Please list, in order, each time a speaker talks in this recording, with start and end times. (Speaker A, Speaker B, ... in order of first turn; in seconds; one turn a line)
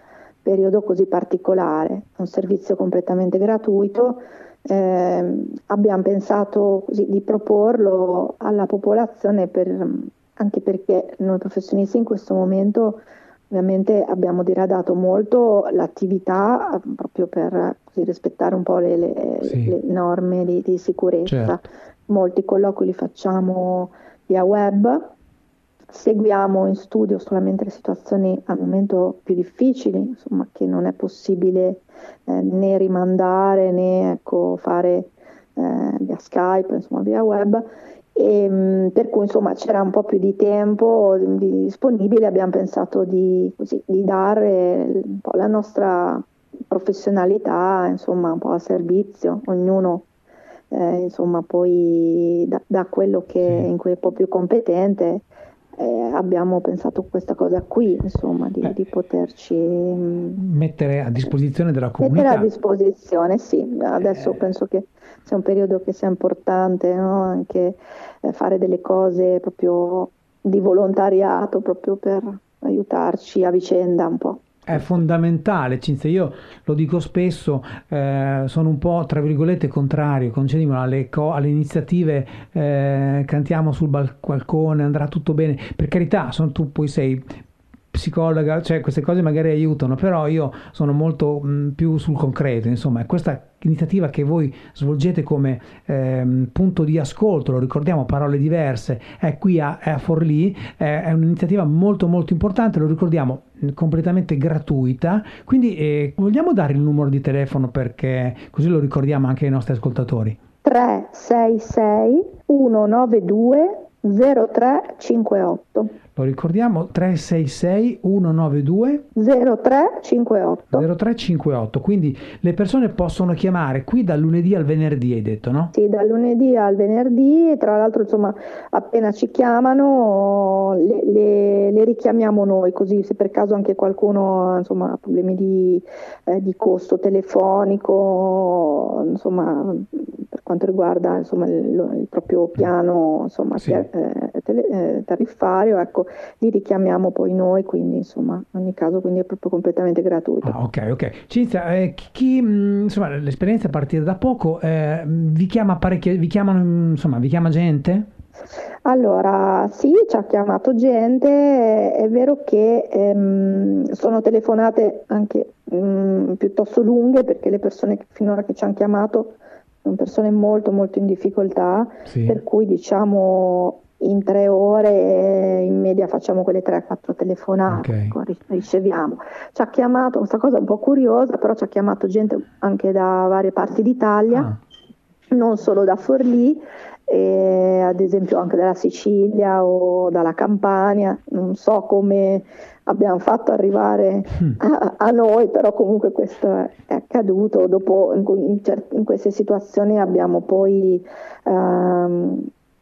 Speaker A: 0.4-25.1
Speaker B: 19.4-19.8
Speaker B: 21.2-21.6
Speaker A: 25.9-50.1
Speaker A: 50.7-60.4
Speaker B: 53.4-53.7
Speaker B: 60.4-62.5
Speaker A: 62.0-75.0
Speaker B: 74.7-87.3
Speaker B: 87.9-110.4
Speaker A: 110.6-116.0
Speaker B: 116.2-119.0
Speaker A: 119.1-120.9
Speaker B: 120.7-125.7
Speaker A: 125.7-150.6
Speaker B: 143.6-143.8
Speaker B: 150.4-158.1
Speaker A: 158.8-184.5
Speaker B: 172.1-172.4
Speaker B: 177.7-178.2
Speaker B: 184.3-184.6
Speaker A: 185.3-202.5